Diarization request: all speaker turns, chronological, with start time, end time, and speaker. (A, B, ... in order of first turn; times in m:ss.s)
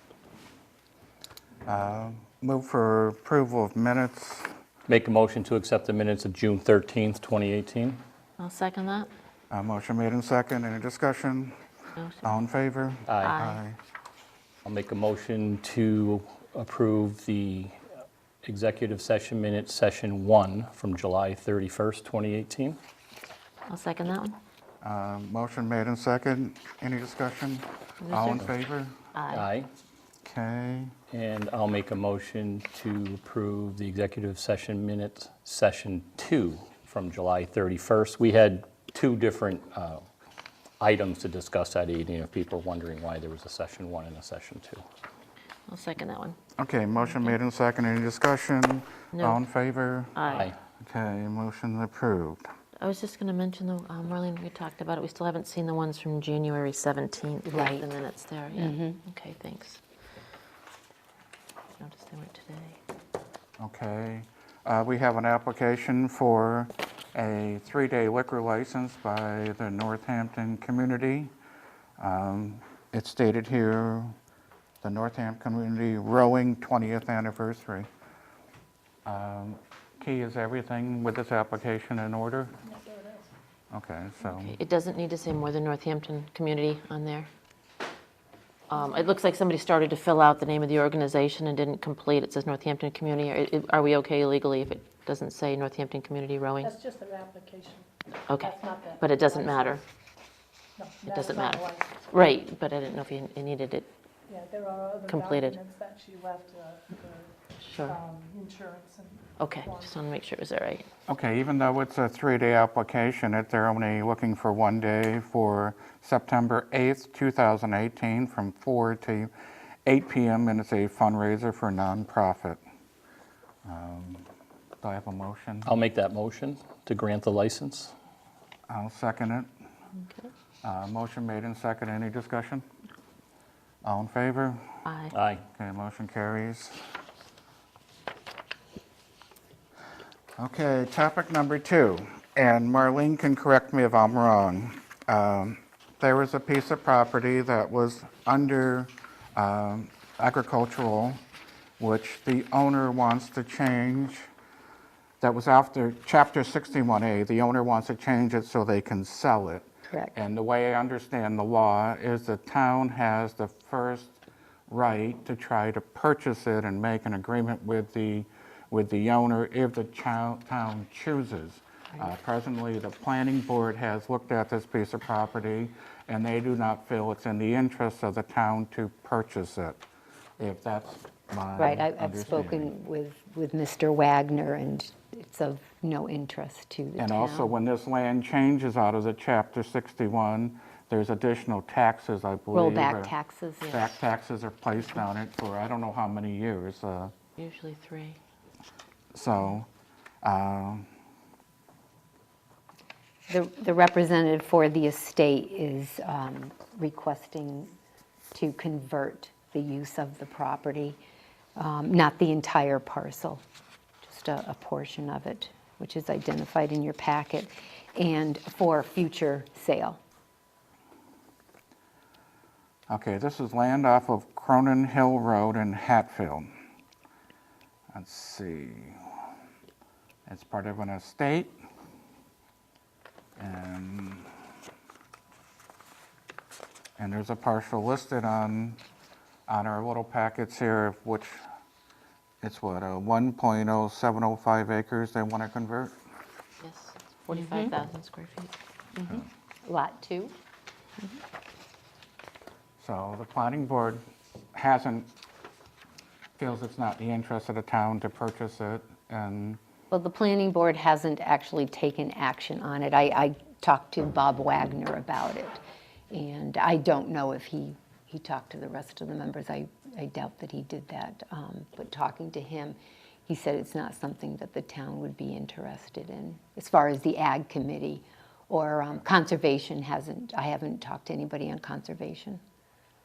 0:01.6-0:04.5 A
0:04.9-0:08.0 B
0:08.4-0:09.1 C
0:09.5-0:11.6 A
0:12.0-0:12.3 C
0:12.2-0:13.8 A
0:13.1-0:13.4 B
0:13.2-0:13.6 C
0:14.6-0:17.8 B
0:18.4-0:22.8 B
0:23.7-0:24.4 C
0:24.8-0:29.0 A
0:28.0-0:28.4 C
0:29.1-0:29.5 C
0:29.3-0:29.7 B
0:30.2-0:30.9 A
0:31.1-0:40.0 B
0:40.8-0:44.8 B
0:45.7-0:46.4 C
0:46.6-0:52.4 A
0:49.1-0:49.4 C
0:50.1-0:50.5 C
0:50.3-0:50.6 B
0:52.8-0:59.8 C
0:57.4-0:57.9 D
0:58.5-0:59.0 D
1:01.8-1:02.8 C
1:03.6-1:11.3 A
1:12.0-1:14.2 A
1:14.8-1:17.9 A
1:19.0-1:22.6 A
1:22.6-1:23.3 E
1:23.7-1:24.6 A
1:24.2-1:27.3 C
1:28.7-1:36.7 C
1:36.6-1:39.8 E
1:38.3-1:39.8 C
1:40.8-1:42.1 E
1:41.0-1:43.9 C
1:44.3-1:49.9 E
1:45.1-1:45.6 C
1:47.6-1:48.0 C
1:49.4-1:50.9 C
1:51.1-1:59.3 A
1:59.8-2:02.6 A
2:03.6-2:04.2 A
2:04.8-2:05.7 A
2:05.6-2:07.9 B
2:08.7-2:09.5 A
2:10.6-2:12.6 A
2:13.8-2:14.6 A
2:14.8-2:15.1 C
2:15.1-2:15.4 B
2:15.5-2:16.8 A
2:20.4-2:31.2 A
2:31.8-2:34.3 A
2:35.2-2:59.8 A
2:39.9-2:40.2 D
3:00.4-3:02.7 A
3:01.6-3:07.6 D
3:07.0-3:17.1 A
3:12.5-3:13.8 D
3:17.4-3:18.2 C
3:19.1-3:19.7 A
3:20.2-3:20.9 A
3:23.3-3:27.7 D
3:28.3-3:31.0 D
3:31.6-3:33.4 D
3:34.0-3:40.0 D
3:42.9-3:46.5 A
3:47.9-3:49.0 A
3:50.2-3:51.6 A
3:53.4-3:54.3 A
3:57.0-3:58.8 A
3:59.5-4:01.4 A
4:02.4-4:05.9 A
4:06.6-4:08.5 C
4:07.3-4:07.7 D
4:08.9-4:10.3 D
4:12.8-4:15.1 A
4:16.4-4:19.6 A
4:19.9-4:42.4 D